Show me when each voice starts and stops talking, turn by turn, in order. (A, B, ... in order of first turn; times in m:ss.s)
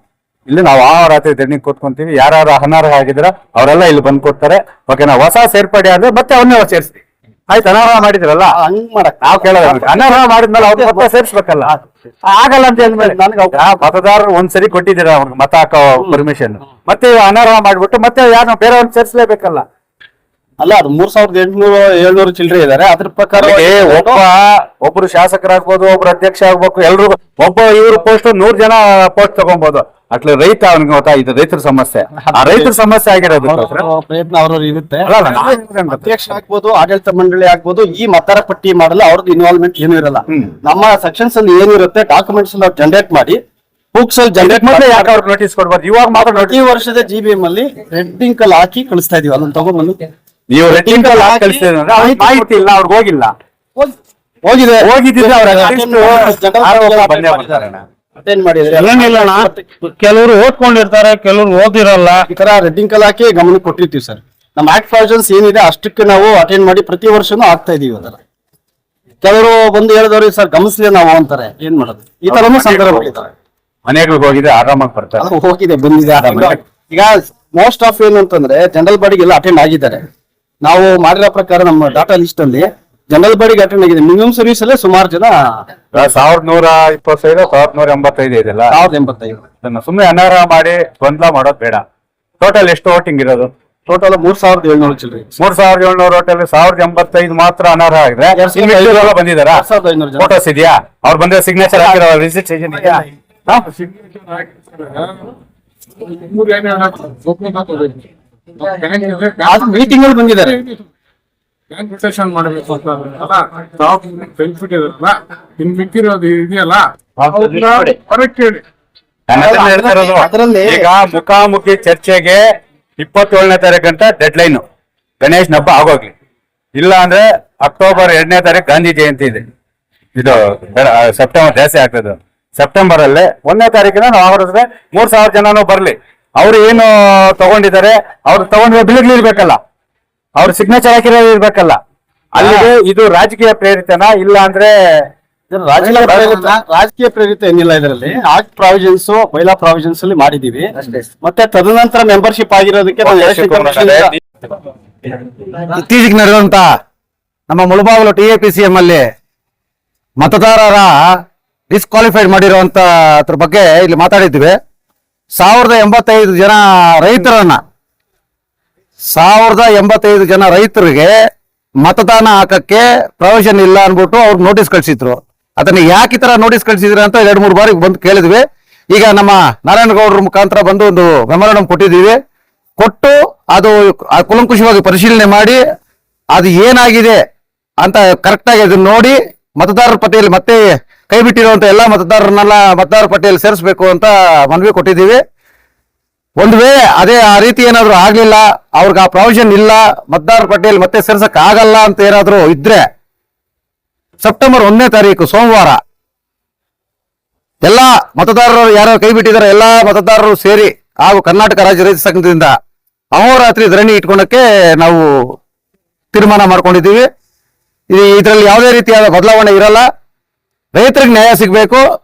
0:00.5-0:08.6 A
0:08.5-0:11.1 B
0:09.2-0:11.7 A
0:11.6-0:11.9 B
0:12.2-0:19.6 A
0:12.8-0:13.8 B
0:20.6-0:24.2 B
0:23.3-0:33.8 A
0:32.3-0:32.7 B
0:33.4-0:43.4 B
0:35.0-0:36.1 A
0:43.9-0:45.1 B
0:44.4-0:46.6 A
0:46.1-0:50.0 B
0:50.5-0:53.3 A
0:50.7-0:52.7 B
0:53.8-0:59.7 B
0:54.8-0:57.8 A
0:58.7-1:02.2 C
1:02.3-1:08.2 B
1:09.2-1:13.3 B
1:12.3-1:13.0 A
1:13.8-1:15.2 A
1:15.2-1:20.0 B
1:16.2-1:16.6 A
1:20.6-1:26.1 B
1:25.9-1:28.8 A
1:28.7-1:29.4 B
1:29.6-1:31.8 A
1:32.4-1:33.5 A
1:33.9-1:35.3 B
1:35.4-1:39.6 A
1:38.3-1:40.3 B
1:40.2-1:43.0 A
1:42.7-1:43.0 B
1:43.5-1:45.4 D
1:46.0-1:49.9 D
1:49.4-1:50.6 B
1:50.4-1:50.8 D
1:51.7-1:58.6 D
1:57.2-1:58.0 A
1:59.3-2:02.4 A
1:59.3-2:00.8 B
2:03.0-2:04.6 A
2:05.2-2:06.1 A
2:06.7-2:09.4 A
2:10.2-2:19.6 A
2:20.4-2:21.8 A
2:22.3-2:24.7 A
2:22.4-2:22.7 B
2:25.5-2:34.1 B
2:25.8-2:26.6 E
2:25.9-2:26.4 A
2:30.7-2:31.1 E
2:33.0-2:34.2 A
2:35.5-2:36.7 E
2:37.5-2:39.0 E
2:40.2-2:41.1 E
2:41.7-2:44.6 E
2:45.4-2:47.6 E
2:49.1-2:51.1 E
2:51.8-3:02.2 E
3:02.8-3:05.6 E
3:06.3-3:07.2 E
3:07.8-3:15.2 E
3:16.4-3:22.8 E
3:24.2-3:25.8 E
3:27.6-3:32.5 E
3:33.1-3:35.1 E
3:36.1-3:37.0 E
3:37.9-3:39.8 E
3:40.7-3:41.8 E